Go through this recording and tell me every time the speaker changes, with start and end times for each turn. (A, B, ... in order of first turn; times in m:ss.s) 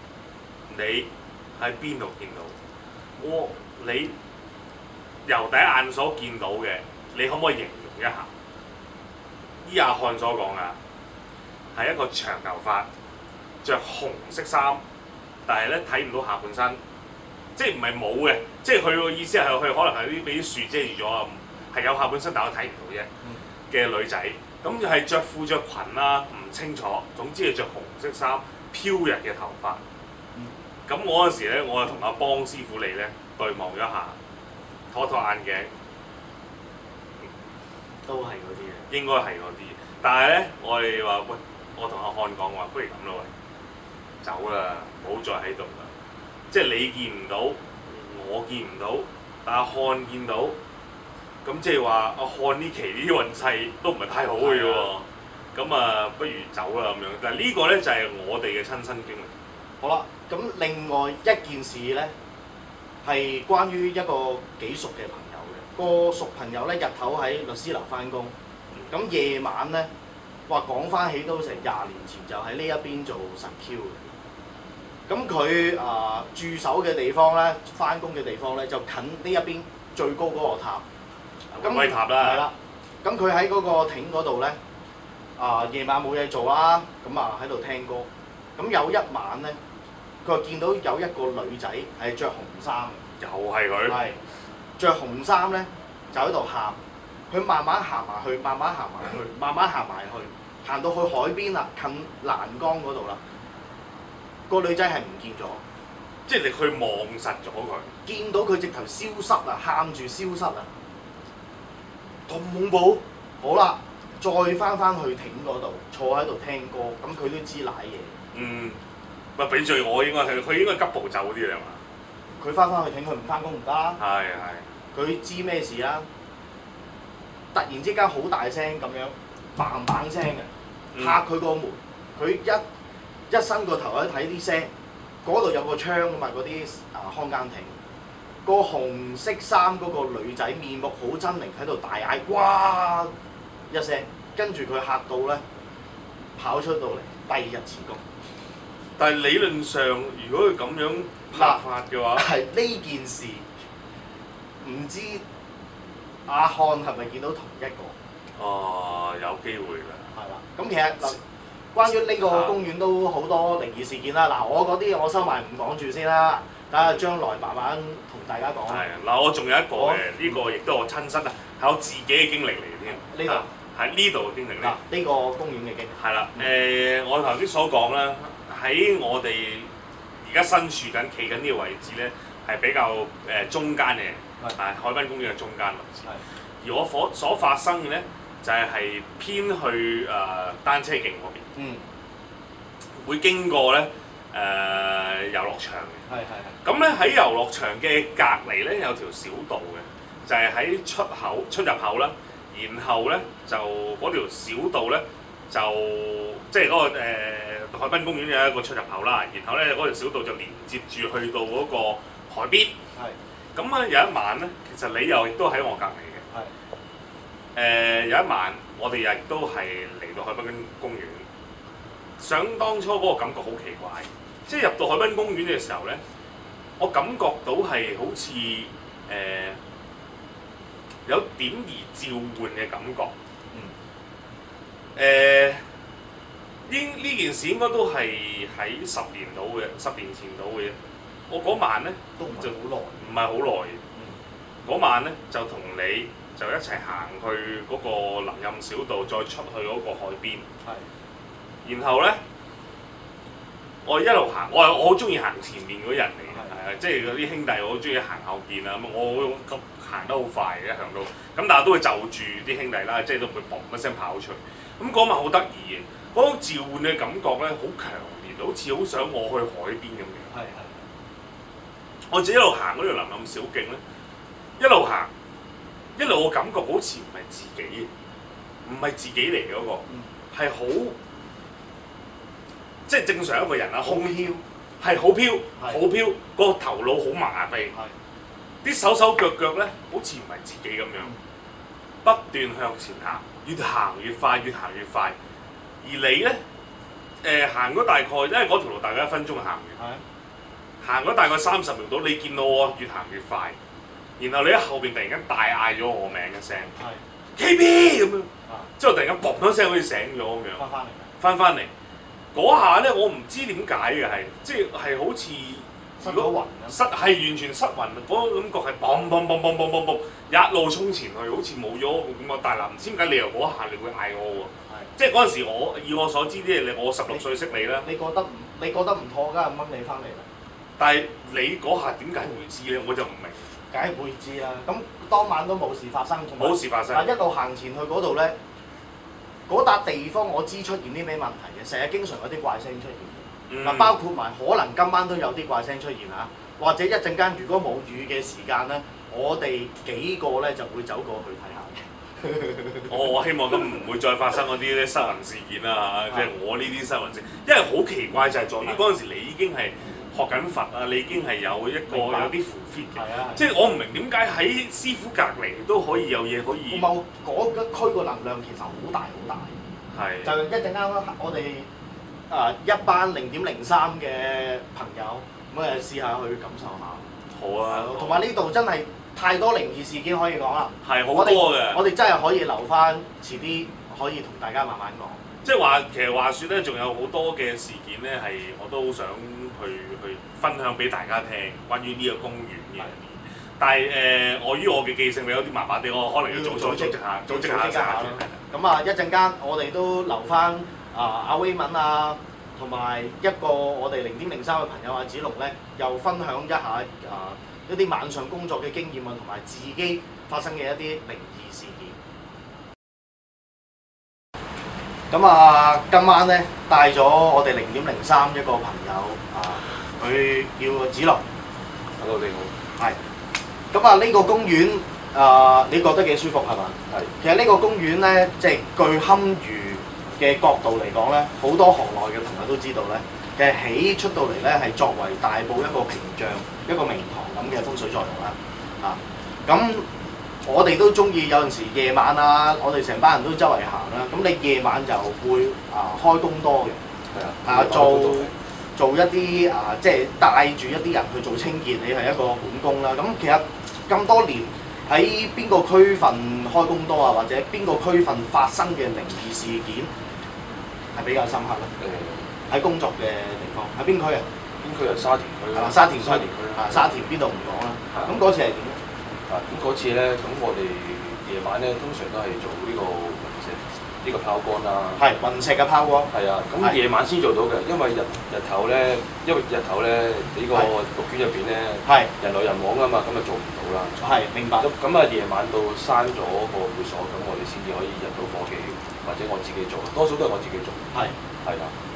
0:00.7-0:02.5 A
0:03.2-0:04.2 A
0:05.2-0:08.3 A
0:09.6-0:10.8 A
0:11.8-0:12.9 A
0:13.6-0:14.8 A
0:15.5-0:16.8 A
0:17.6-0:23.1 A
0:23.7-0:29.8 A
0:30.9-0:34.2 A
0:34.9-0:35.7 A
0:38.1-0:38.9 B
0:38.9-0:43.3 A
0:44.2-0:45.9 A
0:46.5-0:50.6 A
0:51.4-0:59.3 A
0:54.4-0:54.9 B
0:59.8-1:02.1 B
1:03.0-1:08.3 B
1:08.9-1:09.9 B
1:10.5-1:14.1 B
1:15.1-1:20.8 B
1:21.5-1:22.4 A
1:21.6-1:24.6 B
1:25.4-1:29.6 B
1:30.2-1:33.0 B
1:33.2-1:34.0 A
1:33.9-1:34.2 B
1:34.8-1:36.8 B
1:37.3-1:43.2 B
1:44.5-1:45.6 B
1:46.3-1:47.9 A
1:48.1-1:50.7 B
1:52.3-1:53.0 A
1:53.4-1:58.2 B
1:58.3-1:58.8 A
1:59.4-2:01.8 A
2:02.4-2:04.0 B
2:04.0-2:04.7 A
2:04.9-2:06.1 B
2:07.5-2:12.6 B
2:10.9-2:11.2 A
2:13.3-2:14.7 B
2:15.2-2:17.8 B
2:18.4-2:23.1 B
2:23.7-2:25.4 B
2:26.4-2:28.0 B
2:29.0-2:32.3 A
2:31.3-2:31.6 B
2:32.2-2:33.5 B
2:34.6-2:35.2 B
2:36.3-2:37.9 B
2:38.4-2:40.1 A
2:40.2-2:41.2 B
2:41.7-2:48.8 B
2:42.2-2:42.6 A
2:46.8-2:47.0 A
2:48.7-2:54.8 A
2:49.8-2:50.4 B
2:53.0-2:53.5 B
2:54.6-2:56.5 B
2:56.0-2:59.7 A
3:00.2-3:06.1 A
3:06.6-3:11.5 A
3:11.6-3:11.8 B
3:13.0-3:16.0 A
3:16.1-3:16.6 B
3:16.6-3:32.8 A
3:33.6-3:36.2 A
3:37.6-3:41.3 A
3:42.2-3:46.0 A
3:46.8-3:49.6 A
3:51.1-3:53.1 A
3:55.0-3:55.6 A
3:56.7-4:00.8 A
4:01.3-4:03.8 A
4:02.2-4:03.1 B
4:04.6-4:10.5 A
4:11.6-4:12.2 A
4:13.8-4:30.3 A
4:16.3-4:16.6 B
4:30.3-4:30.8 B
4:32.1-4:33.8 A
4:34.6-4:35.1 A
4:36.0-4:37.9 A
4:38.6-4:41.0 A
4:42.9-4:47.7 A
4:43.8-4:44.4 B
4:48.6-4:51.1 A
4:52.0-4:55.2 A
4:55.8-4:56.4 A
4:57.2-4:59.8 A
5:00.8-5:03.6 A
5:04.2-5:06.8 A
5:07.4-5:10.6 A
5:10.6-5:11.1 B
5:11.2-5:11.7 A
5:12.3-5:27.9 A
5:16.0-5:16.8 B
5:27.8-5:30.3 B
5:30.8-5:33.5 A
5:33.7-5:38.4 B
5:36.4-5:37.1 A
5:39.5-5:53.0 B
5:43.5-5:44.0 A
5:52.9-6:06.9 A
6:01.9-6:02.3 B
6:02.9-6:03.5 B
6:06.7-6:09.6 B
6:09.9-6:10.4 A
6:10.2-6:11.7 B
6:12.3-6:17.1 B
6:17.3-6:18.3 A
6:17.7-6:25.2 B
6:20.8-6:21.8 A
6:25.4-6:38.4 A
6:36.3-6:52.0 B
6:55.1-7:01.2 B
7:02.0-7:02.5 C
7:03.7-7:19.9 B
7:20.4-7:26.8 B
7:27.1-7:28.3 C
7:27.4-7:39.9 B
7:40.9-7:41.7 B
7:41.8-7:42.3 C
7:42.5-7:44.3 B
7:44.6-7:46.8 C
7:45.5-7:48.8 B
7:47.9-7:48.2 C
7:49.3-7:55.0 C
7:55.0-7:56.8 B
7:56.1-8:04.0 C
8:01.8-8:02.1 B
8:04.0-8:04.7 B
8:04.6-8:10.9 C
8:11.4-8:11.7 C